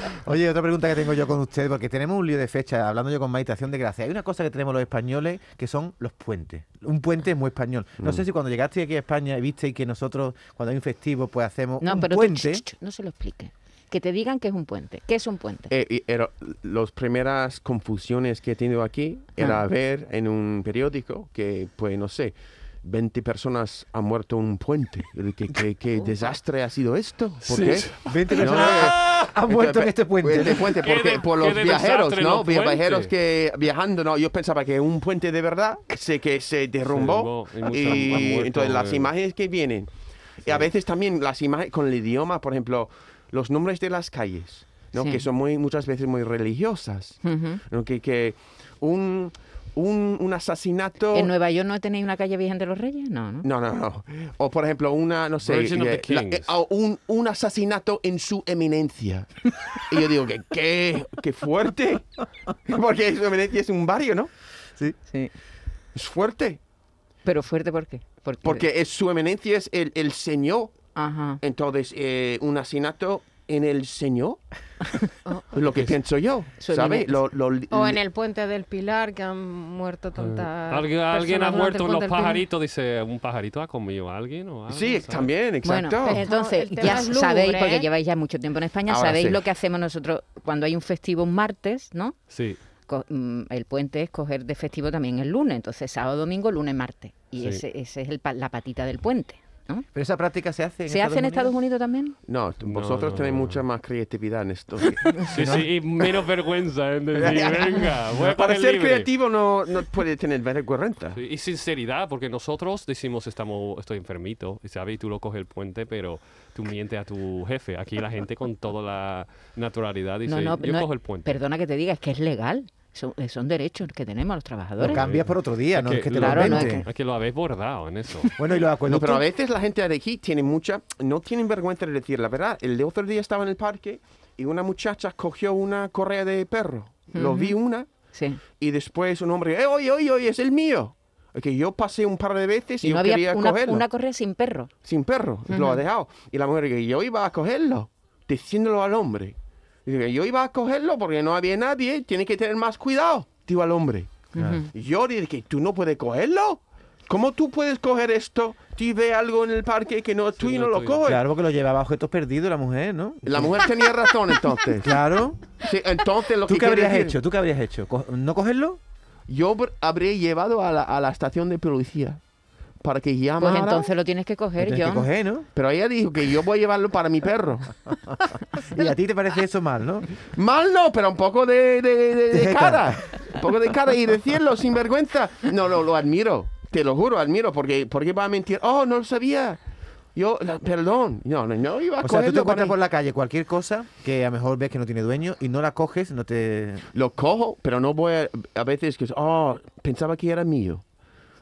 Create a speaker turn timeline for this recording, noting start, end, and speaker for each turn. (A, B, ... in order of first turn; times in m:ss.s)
0:00.2-0:12.6 A
0:11.8-0:15.7 B
0:15.7-0:39.9 C
0:27.4-0:29.3 D
0:28.0-0:30.8 A
0:30.8-0:33.1 D
0:36.8-0:39.1 D
0:40.4-0:51.3 C
0:45.0-0:45.2 B
0:47.2-0:47.6 B
0:51.1-0:53.5 B
0:53.4-1:04.3 C
0:55.4-0:56.5 D
1:05.9-1:06.6 C
1:07.2-1:08.6 B
1:08.4-1:10.8 C
1:10.9-1:11.4 B
1:11.4-1:14.4 C
1:15.5-1:18.0 C
1:16.6-1:17.2 B
1:17.7-1:22.4 E
1:20.2-1:25.3 D
1:24.7-1:26.2 C
1:25.6-1:32.2 B
1:26.1-1:27.9 E
1:28.9-1:29.4 C
1:32.3-1:32.6 D
1:32.9-1:39.8 B
1:39.9-1:41.5 A
1:40.9-1:42.2 B
1:42.3-1:45.3 C
1:42.6-1:43.6 D
1:45.2-1:49.1 D
1:45.3-1:45.7 A
1:47.1-1:51.2 C
1:51.1-2:01.4 D
2:00.3-2:05.0 B
2:04.8-2:06.8 A
2:04.8-2:08.3 D
2:06.2-2:06.8 B
2:08.3-2:09.2 A
2:08.8-2:17.9 C
2:17.1-2:17.6 B
2:18.1-2:18.4 B
2:18.6-2:23.8 C
2:22.8-2:24.7 B
2:24.8-2:34.2 C
2:25.5-2:25.8 B
2:34.3-2:34.7 B
2:34.7-2:41.2 C
2:40.4-2:41.0 D
2:41.0-2:43.6 A
2:43.2-2:45.0 C
2:44.8-2:45.4 A
2:45.6-2:47.2 C
2:46.4-2:48.8 A
2:49.3-2:52.2 C
2:52.8-2:53.9 C
2:53.4-2:55.1 B
2:54.6-2:55.5 A
2:55.5-2:57.8 C
2:58.6-3:00.1 A
3:00.3-3:09.6 C
3:02.3-3:03.2 A
3:10.1-3:12.7 C
3:12.0-3:16.9 A
3:16.9-3:20.8 C